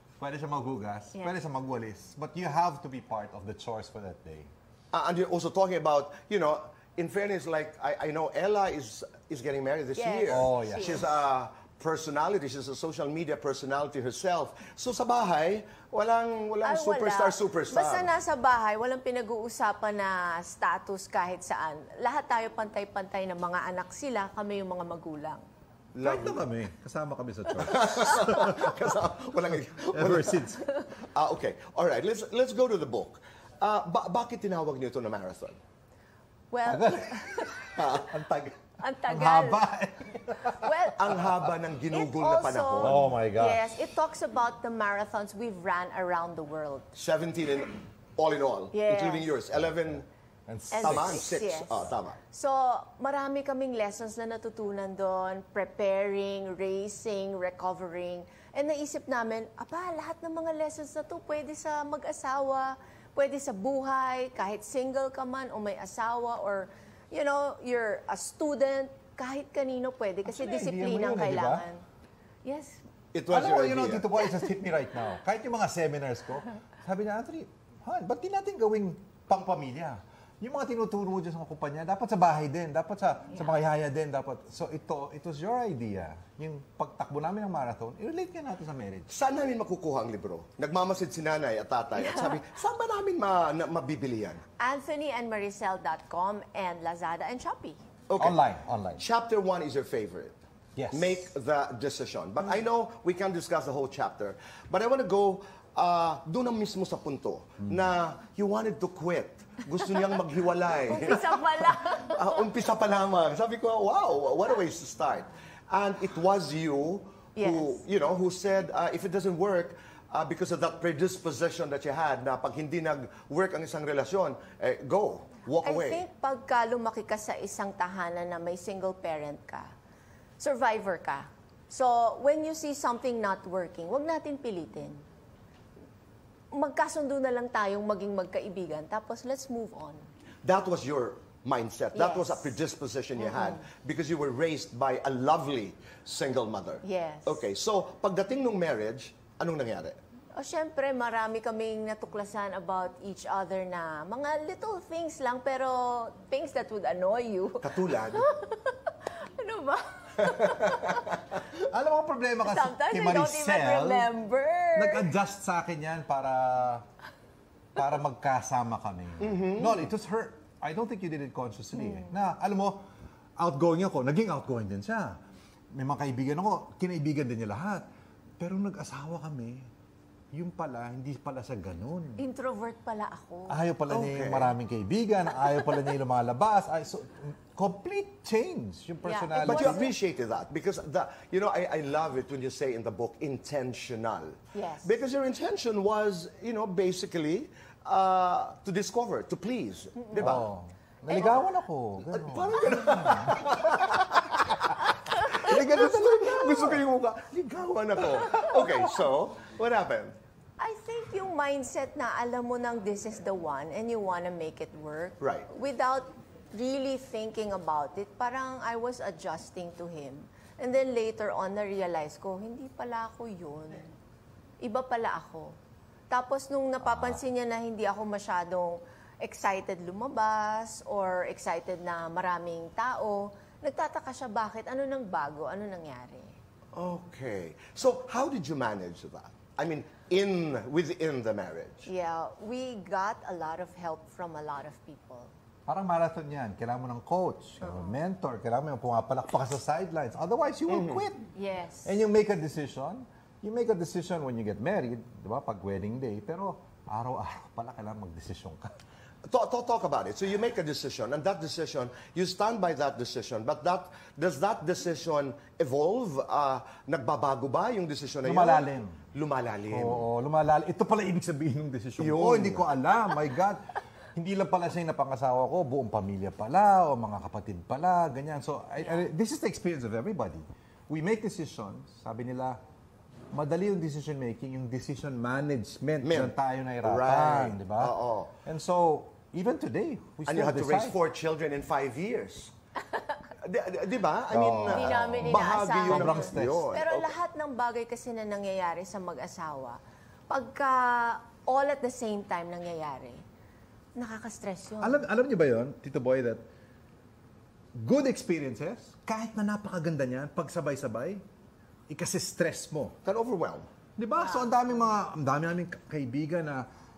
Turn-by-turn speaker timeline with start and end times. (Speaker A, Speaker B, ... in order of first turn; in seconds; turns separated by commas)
Speaker A: 0.2-4.5, Speaker B: 4.9-18.1, Speaker C: 9.9-11.1, Speaker A: 10.3-11.0, Speaker C: 16.6-25.4, Speaker B: 25.9-26.4, Speaker A: 26.0-28.7, Speaker B: 27.6-30.5, Speaker A: 29.9-30.6, Speaker B: 31.0-35.6, Speaker C: 36.5-37.8, Speaker A: 36.6-38.2, Speaker B: 37.7-38.5, Speaker C: 38.8-39.6, Speaker A: 39.1-41.5, Speaker C: 40.6-41.1, Speaker B: 40.9-43.1, Speaker C: 41.9-46.9, Speaker A: 42.8-43.7, Speaker B: 46.9-50.0, Speaker C: 48.7-49.3, Speaker A: 49.5-51.2, Speaker C: 50.7-71.8, Speaker B: 50.8-52.2, Speaker A: 70.2-71.6, Speaker C: 72.4-72.8, Speaker B: 73.1-74.0, Speaker A: 73.3-89.1, Speaker C: 74.1-74.5, Speaker C: 83.3-83.6, Speaker B: 89.1-94.4, Speaker C: 91.9-92.4, Speaker C: 94.6-97.8, Speaker B: 98.1-98.4, Speaker A: 98.2-99.0, Speaker B: 99.0-100.4, Speaker A: 100.8-101.3, Speaker B: 100.9-126.0, Speaker C: 110.9-112.5, Speaker C: 117.3-117.8, Speaker C: 125.6-129.7, Speaker C: 130.4-135.0, Speaker C: 136.5-140.1, Speaker B: 140.4-150.0, Speaker C: 141.9-142.5, Speaker C: 143.2-143.6, Speaker C: 146.8-147.4, Speaker C: 150.3-161.2, Speaker B: 157.6-158.2, Speaker B: 160.2-161.0, Speaker A: 161.7-164.1, Speaker C: 162.4-165.1, Speaker A: 164.7-166.8, Speaker A: 167.8-172.8, Speaker B: 169.2-169.8, Speaker C: 171.7-172.1, Speaker A: 173.4-175.2, Speaker A: 175.7-177.8, Speaker A: 178.4-179.7, Speaker A: 180.3-182.2, Speaker C: 182.2-183.6, Speaker A: 183.5-189.9, Speaker B: 183.9-184.6, Speaker C: 185.4-185.8, Speaker C: 189.0-189.9, Speaker B: 189.4-200.4, Speaker C: 194.5-194.9, Speaker C: 200.0-200.4, Speaker A: 200.1-204.4, Speaker C: 201.1-201.5, Speaker B: 202.0-210.1, Speaker A: 205.3-206.8, Speaker C: 210.6-223.9, Speaker B: 215.2-215.5, Speaker C: 224.6-225.5, Speaker C: 226.1-236.3, Speaker B: 236.7-241.9, Speaker C: 241.8-245.3, Speaker A: 245.7-251.3, Speaker C: 247.6-248.0, Speaker B: 250.7-251.1, Speaker C: 251.3-252.0, Speaker A: 251.8-258.8, Speaker B: 259.3-270.1, Speaker A: 268.2-269.0, Speaker A: 269.7-273.6, Speaker B: 272.0-272.7, Speaker A: 274.1-282.6, Speaker C: 278.8-279.1, Speaker A: 283.3-287.9, Speaker B: 286.0-288.3, Speaker A: 288.4-290.9, Speaker B: 290.2-292.5, Speaker B: 293.4-297.1, Speaker A: 294.3-296.7, Speaker C: 294.7-303.2, Speaker C: 303.9-305.1, Speaker A: 304.8-306.4, Speaker A: 307.7-311.2, Speaker A: 311.9-313.0, Speaker B: 313.0-313.6, Speaker A: 314.0-316.6, Speaker C: 314.1-314.9